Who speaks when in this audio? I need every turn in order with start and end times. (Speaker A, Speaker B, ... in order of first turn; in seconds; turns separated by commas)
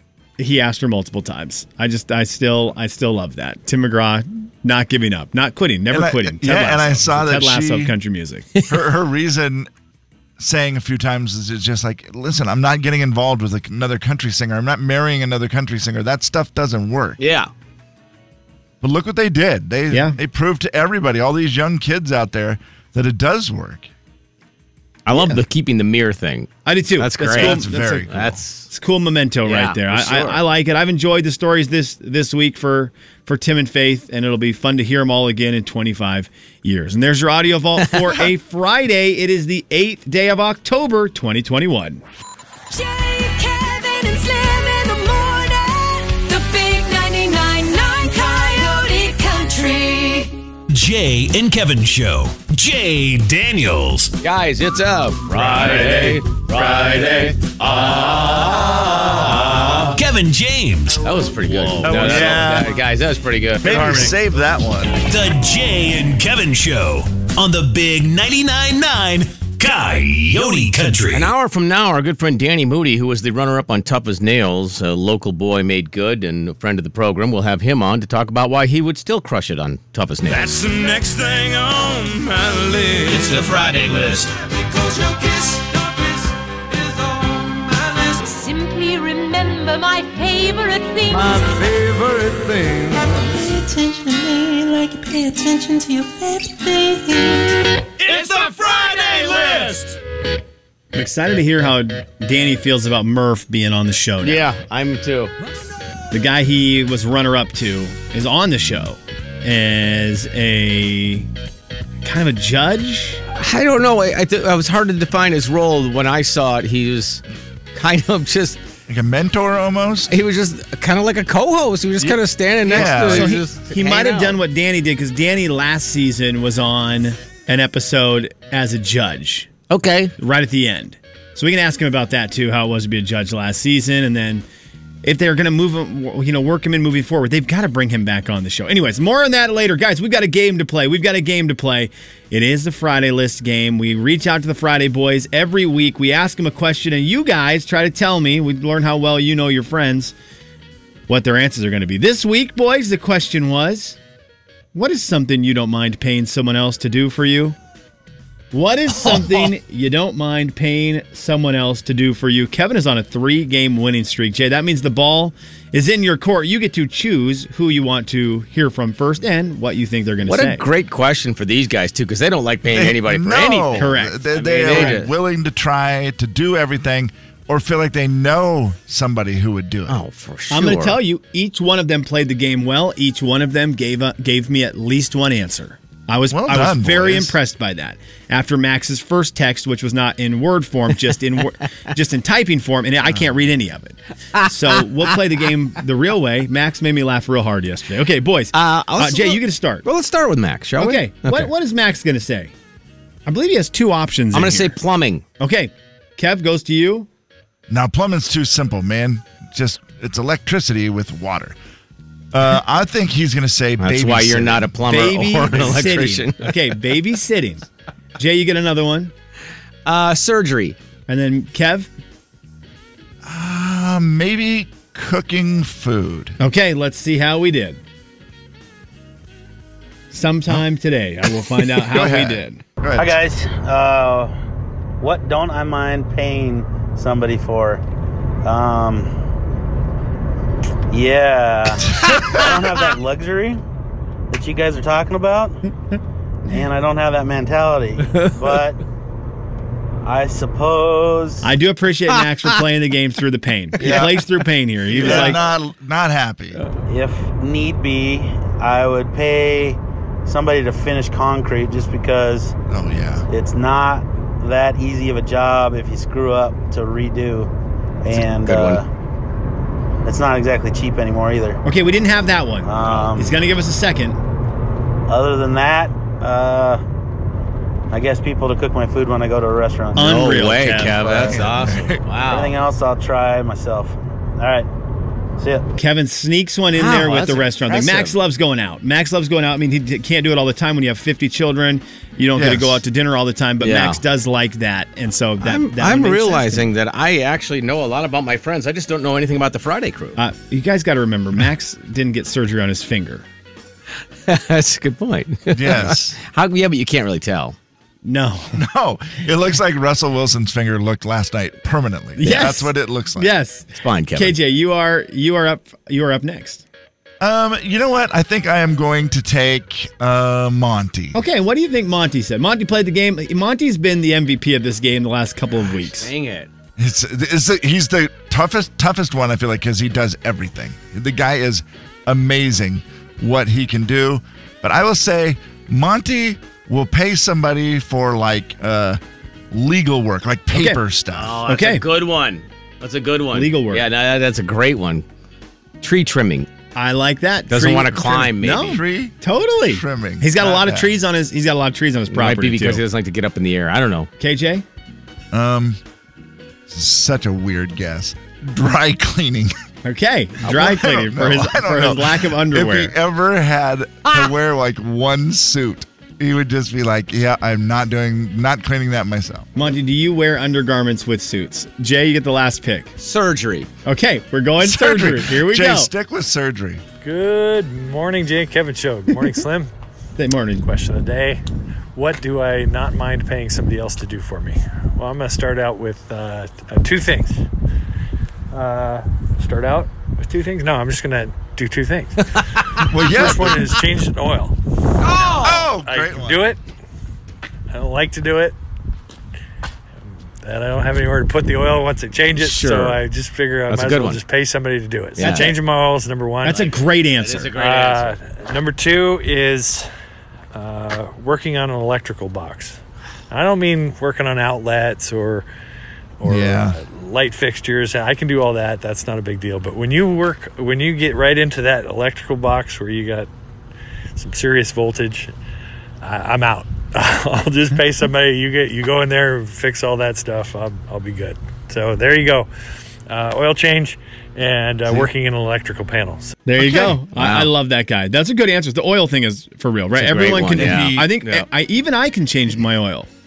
Speaker A: 0.4-8.5, Speaker B: 5.9-7.9, Speaker B: 8.7-9.7, Speaker B: 10.4-17.2, Speaker C: 17.2-17.5, Speaker B: 18.8-23.9, Speaker A: 19.9-20.2, Speaker C: 25.1-28.7, Speaker A: 25.1-25.4, Speaker A: 26.6-28.1, Speaker B: 27.3-28.4, Speaker A: 28.7-42.0, Speaker C: 29.5-30.4, Speaker D: 42.7-50.4, Speaker E: 50.7-54.1, Speaker C: 54.2-59.8, Speaker E: 59.9-61.0, Speaker C: 61.0-64.1, Speaker A: 61.5-62.1, Speaker B: 61.8-62.8, Speaker B: 63.6-65.0, Speaker E: 65.1-71.3, Speaker C: 71.1-80.6, Speaker D: 88.2-91.8, Speaker E: 98.1-99.7, Speaker A: 100.9-104.5, Speaker C: 104.2-105.3, Speaker A: 106.1-111.3, Speaker A: 112.0-113.2, Speaker C: 113.3-117.2, Speaker C: 117.8-118.6, Speaker B: 118.9-120.1, Speaker C: 120.1-124.4, Speaker B: 122.0-123.4, Speaker A: 122.7-129.5, Speaker C: 129.7-130.1, Speaker A: 130.2-134.4, Speaker A: 135.0-150.1, Speaker A: 151.1-154.0, Speaker A: 154.7-157.6, Speaker A: 158.5-170.6, Speaker C: 159.0-159.5, Speaker C: 170.2-175.1, Speaker B: 172.7-180.0, Speaker A: 173.8-175.0, Speaker C: 179.9-181.0, Speaker A: 180.5-199.8, Speaker B: 186.3-187.4, Speaker C: 198.5-201.5, Speaker A: 200.8-202.5, Speaker A: 203.3-204.8, Speaker C: 204.3-205.2, Speaker A: 205.4-207.1, Speaker B: 207.7-211.6, Speaker B: 212.3-214.7, Speaker C: 213.8-216.5, Speaker A: 214.9-217.7, Speaker A: 218.2-219.1, Speaker C: 219.9-220.8, Speaker A: 221.1-221.9, Speaker B: 223.2-226.4, Speaker A: 226.4-227.8, Speaker A: 230.1-232.6, Speaker B: 231.7-233.1, Speaker F: 233.0-234.3, Speaker F: 235.0-237.8, Speaker F: 238.4-239.1, Speaker F: 240.9-243.6, Speaker F: 244.3-245.6, Speaker F: 246.5-248.8, Speaker F: 250.1-251.5, Speaker A: 251.4-255.4, Speaker B: 253.8-254.2, Speaker B: 254.9-256.6, Speaker F: 256.9-262.6, Speaker B: 262.7-263.3, Speaker F: 263.3-267.5, Speaker F: 268.0-268.9, Speaker C: 268.2-268.8, Speaker F: 270.1-271.6, Speaker A: 271.6-274.2, Speaker F: 272.6-273.4, Speaker F: 275.1-276.8, Speaker F: 277.9-280.4, Speaker A: 279.9-281.2, Speaker C: 280.0-282.6, Speaker B: 281.0-282.0, Speaker F: 282.2-284.7, Speaker F: 285.4-285.6, Speaker A: 285.8-296.7, Speaker C: 286.8-288.1, Speaker B: 292.4-292.8, Speaker C: 293.6-294.0, Speaker C: 295.4-300.2, Speaker A: 300.2-303.2, Speaker C: 304.3-307.6, Speaker B: 305.5-306.2, Speaker A: 308.1-308.6, Speaker B: 308.6-313.3, Speaker A: 312.2-316.6, Speaker C: 313.8-314.4, Speaker B: 317.2-321.2, Speaker A: 321.1-326.1, Speaker C: 326.0-326.5, Speaker B: 326.8-339.0, Speaker B: 339.5-341.4, Speaker A: 340.5-340.8, Speaker C: 341.1-345.1, Speaker A: 341.5-341.8, Speaker A: 343.3-343.8, Speaker C: 345.8-346.5, Speaker A: 346.8-352.8, Speaker C: 347.5-348.8, Speaker B: 348.6-350.9, Speaker C: 352.1-354.1, Speaker A: 354.2-354.6, Speaker B: 355.3-355.8, Speaker B: 356.7-359.5, Speaker A: 359.9-362.9, Speaker B: 360.4-369.5, Speaker A: 369.6-372.9, Speaker C: 373.0-373.7, Speaker A: 373.9-375.9, Speaker B: 374.6-376.8, Speaker G: 377.0-379.7, Speaker A: 380.2-380.6, Speaker G: 380.6-381.4, Speaker G: 381.9-387.4, Speaker G: 388.5-394.6, Speaker B: 392.8-393.7, Speaker G: 395.1-396.6, Speaker C: 395.2-395.6, Speaker B: 395.4-396.5, Speaker G: 397.7-398.6, Speaker G: 400.4-406.7, Speaker C: 402.4-403.0, Speaker C: 403.7-404.2, Speaker C: 405.2-405.6, Speaker C: 406.4-408.1, Speaker A: 406.4-407.5, Speaker G: 407.5-409.9, Speaker G: 410.5-412.8, Speaker G: 413.3-415.5, Speaker G: 416.2-423.3, Speaker B: 416.2-416.8, Speaker G: 424.1-425.3, Speaker G: 426.0-432.5, Speaker G: 433.1-436.4, Speaker A: 436.5-443.1, Speaker B: 436.6-437.0, Speaker C: 437.1-437.5, Speaker C: 439.9-441.5, Speaker B: 440.6-441.1